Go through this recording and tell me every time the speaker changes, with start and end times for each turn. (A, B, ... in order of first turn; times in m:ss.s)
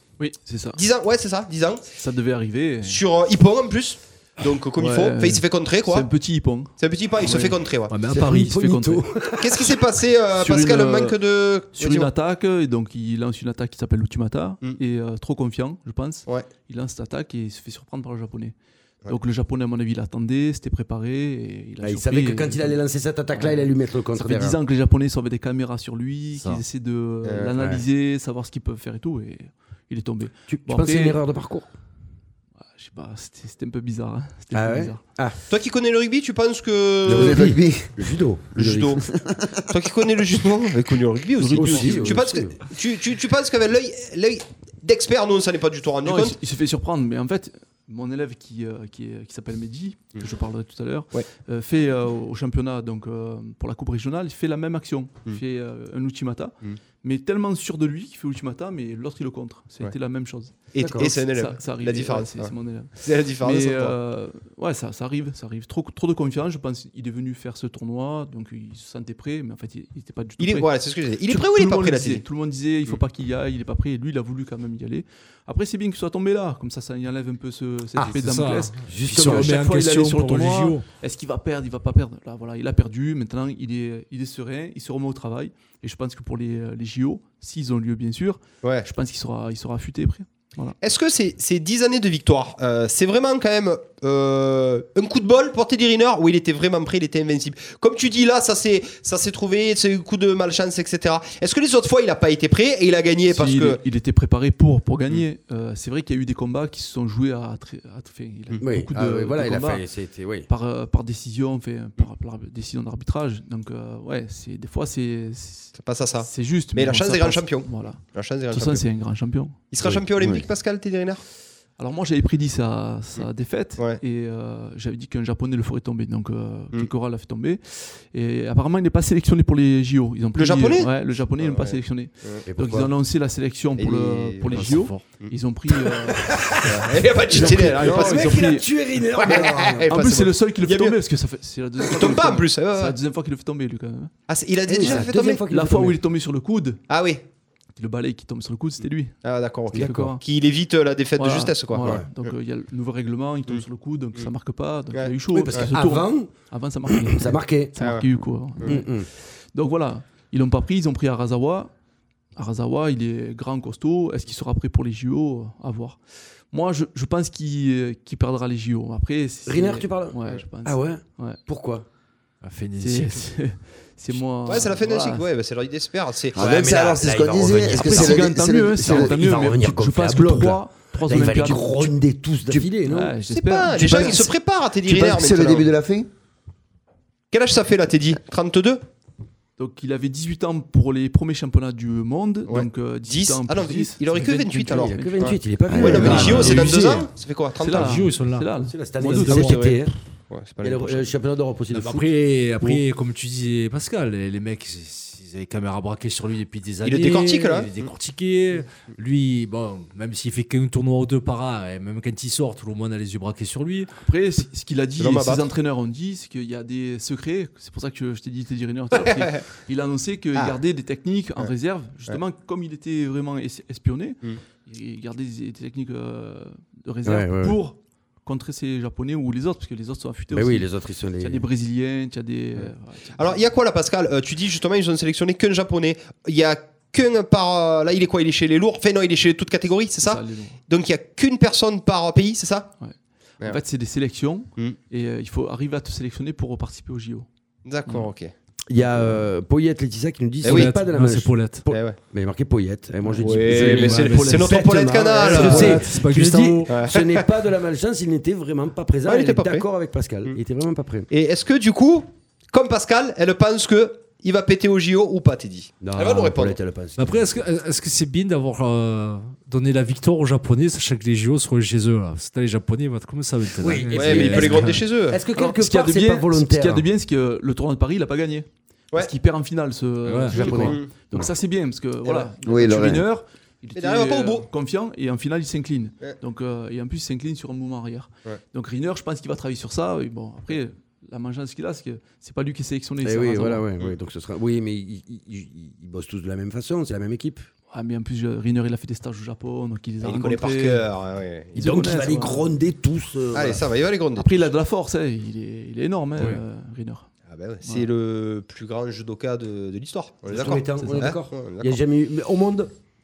0:00.2-0:00.8 A
0:00.7-0:01.8 B
0:02.0-0:03.0 A
0:02.8-0:06.1 B
0:04.8-0:07.6 A
0:06.8-0:07.9 B
0:07.9-0:08.6 C
0:08.1-0:09.8 D
0:08.2-0:09.0 A
0:09.4-0:12.1 B
0:10.3-0:11.2 A
0:11.7-0:18.5 A
0:19.1-0:22.8 A
0:21.8-0:24.6 D
0:23.3-0:31.2 A
0:26.3-0:26.6 C
0:27.2-0:27.5 B
0:27.6-0:27.8 D
0:30.5-0:31.7 D
0:32.6-0:35.0 A
0:34.5-0:35.4 D
0:35.5-0:37.5 B
0:37.0-0:39.0 D
0:37.1-0:38.0 E
0:38.5-0:39.0 B
0:39.0-0:39.6 E
0:39.7-0:46.4 B
0:41.4-0:42.3 A
0:41.5-0:42.6 D
0:46.0-1:10.7 A
1:00.7-1:04.0 B
1:00.8-1:01.1 D
1:10.4-1:12.2 B
1:11.3-1:30.8 A
1:18.0-1:20.8 C
1:18.8-1:19.6 D
1:30.8-1:43.8 B
1:43.3-1:49.8 A
1:48.6-1:50.5 D
1:50.5-1:59.6 A
1:55.8-1:58.8 B
1:59.7-2:01.2 B
1:59.8-2:00.4 E
2:01.8-2:16.6 A
2:10.3-2:12.4 B
2:12.4-2:12.9 D
2:13.8-2:15.3 B
2:14.5-2:15.0 C
2:16.2-2:19.9 D
2:16.6-2:18.4 B
2:17.3-2:18.7 A
2:19.2-2:21.0 B
2:19.3-2:24.1 A
2:21.8-2:23.0 B
2:24.3-2:25.4 B
2:24.7-2:26.0 D
2:24.8-2:26.8 A
2:26.9-2:27.2 B
2:27.8-2:29.2 A
2:29.2-2:32.3 B
2:29.7-2:30.1 D
2:29.7-2:30.2 A
2:31.2-2:39.0 A
2:34.9-2:35.7 B
2:35.3-2:36.3 D
2:36.9-2:37.8 D
2:37.8-2:38.1 B
2:38.6-2:39.1 D
2:39.5-2:41.7 A
2:42.4-2:46.0 A
2:46.5-2:51.4 A
2:49.4-2:51.8 D
2:52.4-2:53.3 C
2:52.8-2:55.3 A
2:54.4-2:56.4 B
2:56.3-2:59.2 E
2:56.4-3:03.2 D
2:57.7-3:01.9 A
3:01.1-3:01.9 E
3:02.5-3:02.7 E
3:02.8-3:04.2 A
3:03.3-3:05.7 B
3:03.8-3:04.2 E
3:03.8-3:04.2 D
3:04.8-3:06.1 E
3:07.3-3:08.8 B
3:09.6-3:15.4 A
3:12.5-3:18.0 B
3:14.7-3:16.8 D
3:15.7-3:16.6 E
3:15.9-3:17.0 C
3:16.0-3:17.0 A
3:17.6-3:19.8 A
3:17.7-3:18.5 C
3:18.6-3:19.9 D
3:19.0-3:19.6 C
3:19.1-3:21.1 B
3:20.6-3:22.1 D
3:21.7-3:33.9 C
3:26.8-3:27.9 B
3:34.0-3:50.7 A
3:35.0-3:35.5 B
3:38.9-3:39.4 B
3:47.0-3:47.6 D
3:50.3-3:51.4 D
3:51.2-3:53.5 A
3:53.1-4:02.7 B
4:00.0-4:00.6 A
4:02.8-4:07.3 A
4:07.6-4:08.3 B
4:08.7-4:21.1 D
4:10.4-4:11.6 C
4:10.4-4:10.7 B
4:11.7-4:12.0 B
4:13.0-4:14.6 A
4:13.2-4:15.8 B
4:15.3-4:16.7 C
4:15.3-4:15.8 A
4:16.7-4:17.2 B
4:19.0-4:19.6 B
4:21.1-4:26.6 B
4:25.8-4:27.2 D
4:27.0-4:34.8 C
4:33.6-4:36.8 D
4:33.9-4:35.2 B
4:35.3-4:53.7 A
4:40.0-4:40.7 C
4:40.3-4:41.3 D
4:40.3-4:40.9 B
4:42.4-4:43.0 E
4:43.7-4:44.5 B
4:53.0-4:57.5 D
4:57.7-5:00.9 A
5:00.0-5:01.6 B
5:01.5-5:02.5 A
5:01.6-5:03.6 D
5:03.3-5:04.5 B
5:04.2-5:07.1 A
5:07.3-5:11.8 B
5:10.3-5:12.7 D
5:10.8-5:11.0 A